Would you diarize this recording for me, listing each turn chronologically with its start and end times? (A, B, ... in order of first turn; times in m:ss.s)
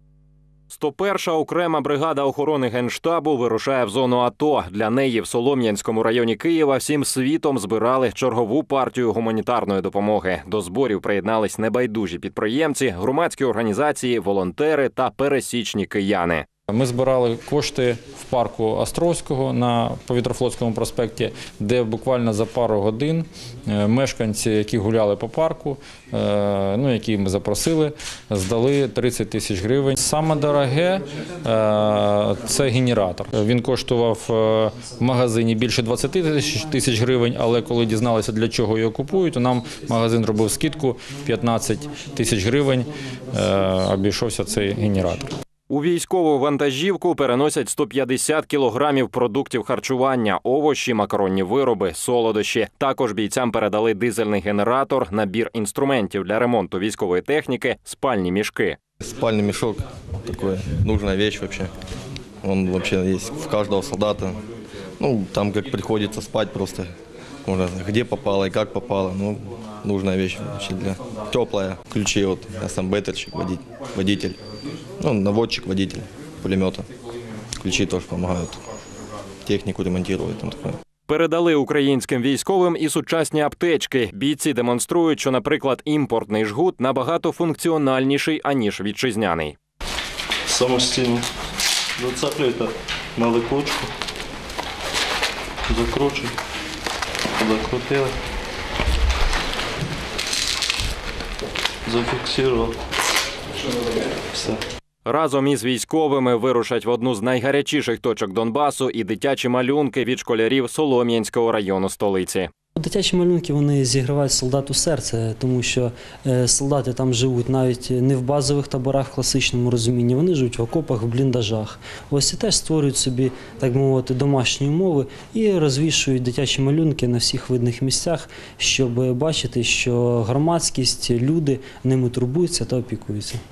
0:00.7-0:16.5 A
0:16.7-0:45.3 B
0:45.7-0:58.8 A
0:59.0-1:01.7 C
1:02.4-1:04.4 C
1:05.0-1:06.9 C
1:07.4-1:14.4 C
1:15.0-1:16.9 C
1:17.6-1:18.6 C
1:19.4-1:20.8 C
1:21.1-1:29.6 A
1:30.5-1:31.3 D
1:32.0-1:33.9 D
1:35.7-1:36.4 D
1:37.4-1:38.2 D
1:41.8-1:42.8 D
1:44.3-1:44.6 D
1:45.0-1:52.5 A
1:52.8-2:13.4 E